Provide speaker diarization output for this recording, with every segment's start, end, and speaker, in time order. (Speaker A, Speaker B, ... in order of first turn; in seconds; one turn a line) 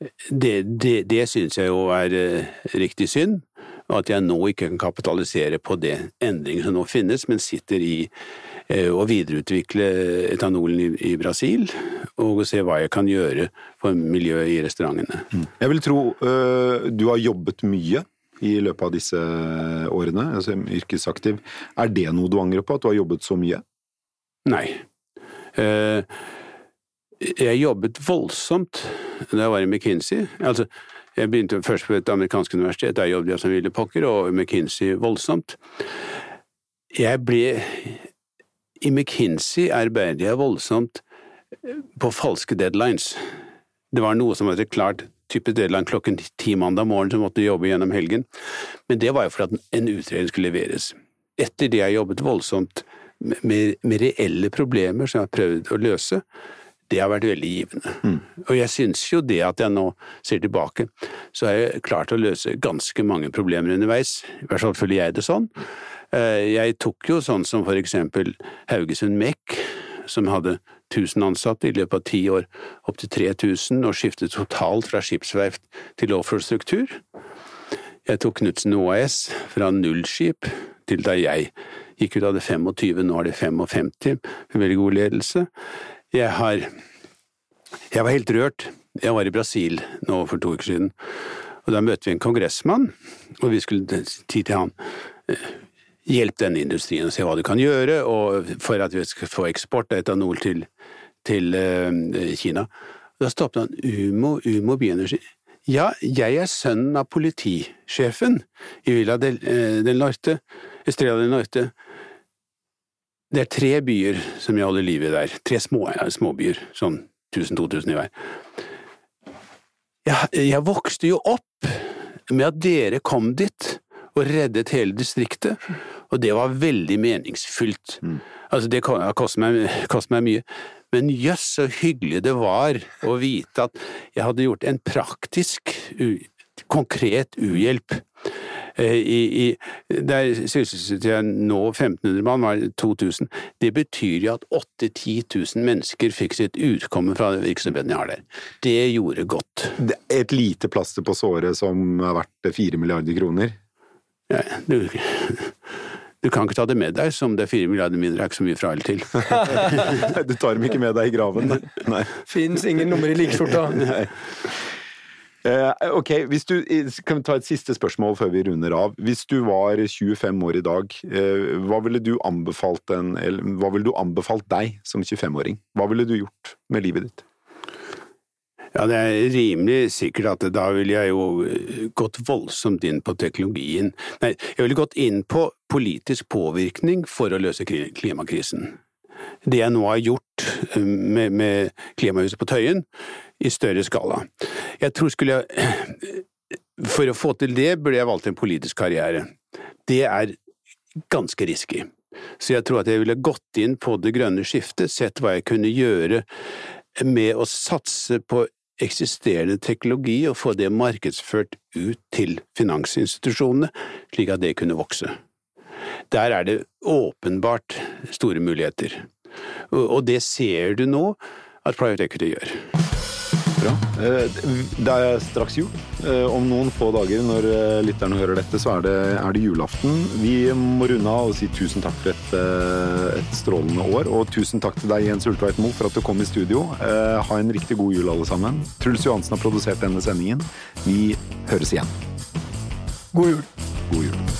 Speaker A: 0.2-8.1
Speaker A: 8.7-15.3
Speaker B: 15.4-23.6
Speaker A: 24.4-24.9
Speaker A: 25.6-26.1
Speaker A: 27.2-35.6
Speaker A: 36.9-38.0
Speaker A: 38.8-41.0
Speaker A: 41.7-43.2
Speaker A: 43.9-48.3
Speaker A: 48.9-56.2
Speaker A: 56.9-65.5
Speaker A: 66.1-77.0
Speaker A: 78.1-85.5
Speaker A: 86.1-86.7
Speaker A: 87.9-90.9
Speaker A: 91.7-94.7
Speaker A: 96.1-100.7
Speaker A: 101.2-111.7
Speaker A: 113.3-118.1
Speaker A: 120.0-125.6
Speaker A: 126.1-138.1
Speaker A: 138.8-149.8
Speaker B: 149.8-153.6
Speaker A: 154.3-155.6
Speaker A: 156.2-159.9
Speaker B: 159.9-162.2
Speaker C: 162.3-163.9
Speaker B: 163.8-164.1
Speaker B: 165.4-177.2
Speaker A: 178.8-188.8
Speaker A: 189.4-192.8
Speaker A: 193.4-196.2
Speaker A: 196.8-199.3
Speaker A: 199.9-200.4
Speaker A: 201.1-206.2
Speaker A: 206.9-215.2
Speaker A: 216.1-219.1
Speaker A: 219.7-222.6
Speaker B: 223.6-242.0
Speaker C: 243.1-243.5
Speaker B: 243.9-244.2